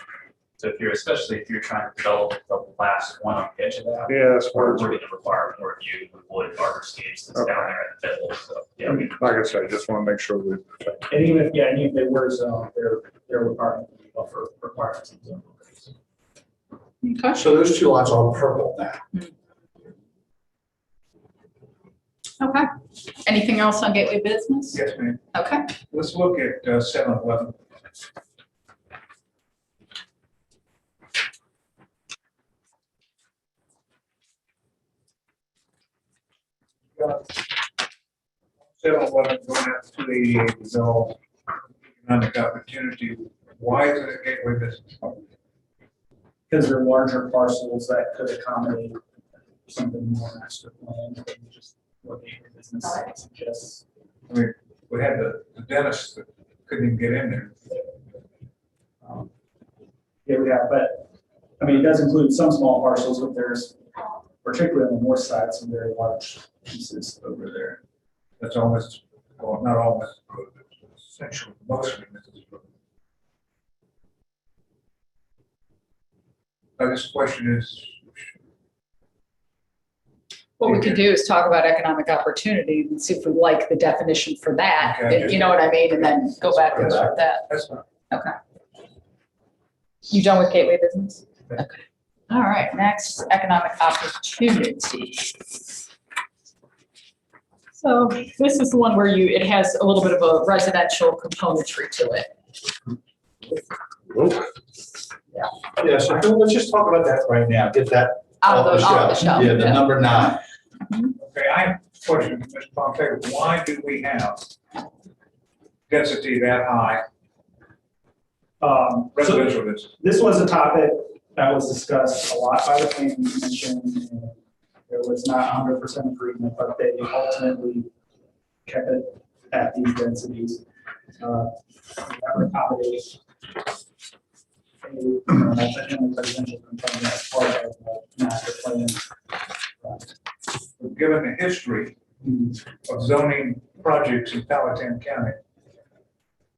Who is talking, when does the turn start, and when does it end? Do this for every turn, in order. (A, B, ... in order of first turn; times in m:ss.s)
0:00.6-0:09.1 A
0:04.1-0:05.0 B
0:07.3-0:07.7 B
0:08.8-0:11.0 B
0:11.1-0:15.9 C
0:17.0-0:17.4 D
0:17.3-0:19.0 E
0:22.4-0:22.7 D
0:23.2-0:24.8 D
0:24.7-0:25.2 F
0:25.3-0:25.7 D
0:25.9-0:27.6 F
0:36.9-0:37.6 F
0:38.6-0:41.2 F
0:41.9-0:45.1 F
0:46.5-0:49.0 C
0:49.6-0:53.8 C
0:54.3-0:57.7 F
0:59.0-0:59.3 C
1:00.2-1:01.0 C
1:01.6-1:03.8 C
1:04.4-1:07.8 C
1:08.4-1:12.6 F
1:16.8-1:18.0 F
1:20.6-1:27.5 D
1:20.6-1:21.0 F
1:24.8-1:27.8 F
1:30.1-1:35.5 D
1:37.7-1:42.3 D
1:43.5-1:44.5 E
1:45.8-1:50.4 E
1:48.4-1:50.2 D
1:50.9-1:51.1 D
1:51.2-1:54.5 F
1:55.9-1:57.0 F
1:58.6-2:07.9 C
1:59.1-1:59.9 F
2:08.6-2:10.6 C
2:11.2-2:13.2 C
2:14.8-2:19.1 C
2:19.8-2:20.1 C
2:20.8-2:22.0 F
2:22.2-2:22.6 C
2:22.8-2:25.4 F